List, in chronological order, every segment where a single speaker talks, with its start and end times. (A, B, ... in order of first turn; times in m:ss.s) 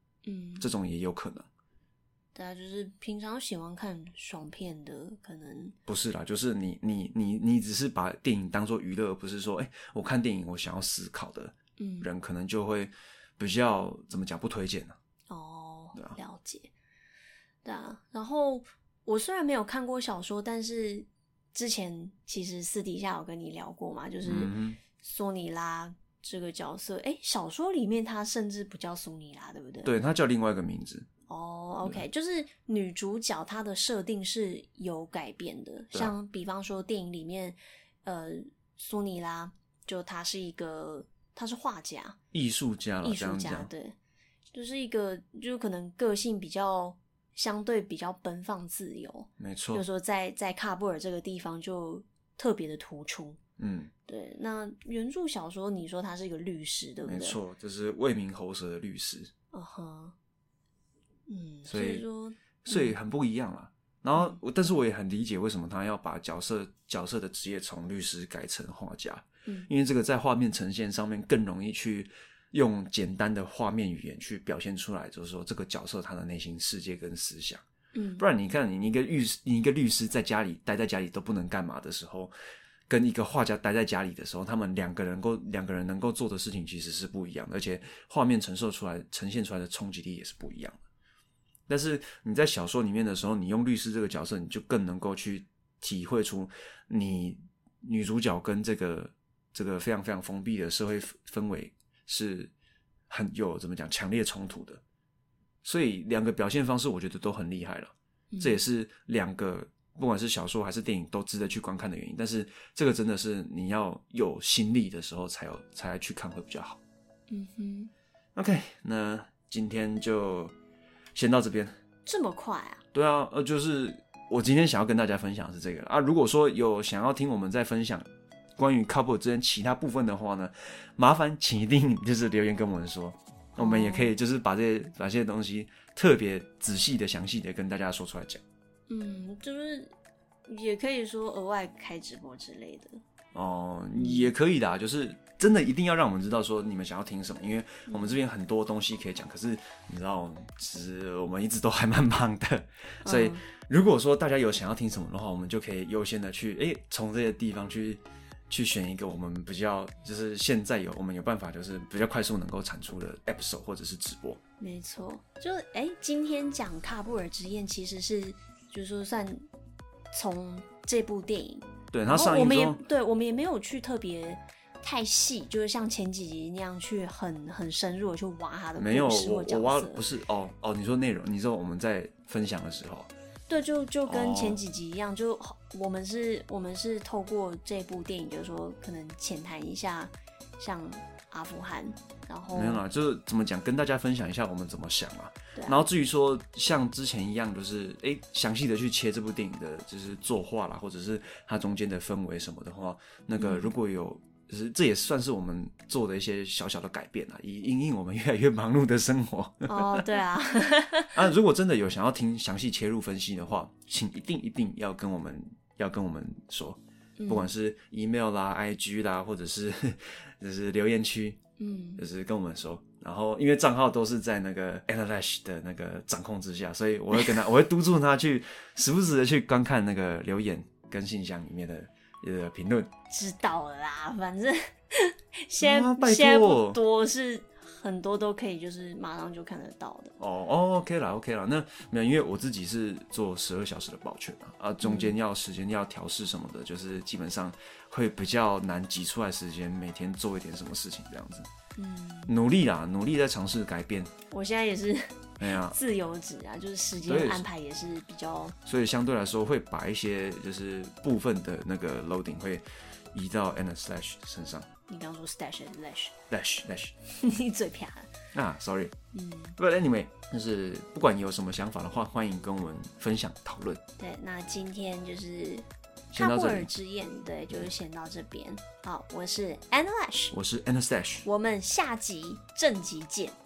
0:00.2-0:00.7 A
0:00.6-0:01.5 B
0:02.4-0:05.8 A
0:05.9-0:15.0 B
0:11.8-0:12.1 A
0:15.3-0:16.7 A
0:17.6-0:29.9 A
0:24.2-0:24.8 B
0:29.8-0:31.1 B
0:31.3-0:42.2 A
0:42.3-0:43.7 B
0:43.0-0:44.0 A
0:44.5-0:53.4 A
0:49.4-0:49.8 B
0:53.6-0:53.9 B
0:54.1-0:57.4 A
0:57.0-0:59.3 B
0:59.5-1:00.1 A
1:01.3-1:03.0 A
1:01.7-1:02.0 B
1:02.6-1:17.6 B
1:17.9-1:18.3 A
1:18.2-1:22.3 B
1:22.9-1:30.8 B
1:31.7-1:42.5 B
1:43.1-1:44.8 B
1:45.6-1:56.8 B
1:48.3-1:48.6 A
1:57.3-1:57.9 A
1:58.4-2:00.6 B
2:01.1-2:01.8 B
2:02.1-2:02.8 A
2:02.9-2:18.4 B
2:13.6-2:14.1 A
2:18.9-2:19.9 A
2:20.5-2:23.0 A
2:23.3-2:44.4 B
2:24.0-2:24.3 A
2:27.9-2:28.2 A
2:33.0-2:33.4 A
2:44.6-2:49.4 A
2:50.1-3:00.0 A
2:51.9-2:52.8 B
2:58.8-3:03.1 B
3:03.5-3:12.8 A
3:04.1-3:04.6 B
3:12.5-3:30.1 B
3:15.6-3:15.9 A
3:23.4-3:23.7 A
3:29.7-3:31.3 A
3:31.1-3:41.4 B
3:37.2-3:37.5 A
3:41.6-3:42.0 A
3:42.0-3:52.9 B
3:53.1-4:00.1 A
3:55.6-3:56.8 B
4:00.2-4:11.5 B
4:04.8-4:05.1 A
4:11.8-4:12.3 A
4:12.3-4:14.1 B
4:14.3-4:18.6 A
4:15.4-4:15.8 B
4:17.0-4:17.4 B
4:18.6-4:24.7 B
4:24.9-4:26.1 A
4:26.3-4:26.9 B
4:27.1-4:28.1 A
4:28.3-4:28.9 B
4:29.1-4:29.6 A
4:29.6-4:33.8 B
4:34.0-4:40.4 A
4:36.1-4:36.7 B
4:40.3-4:41.3 B
4:41.2-4:43.4 A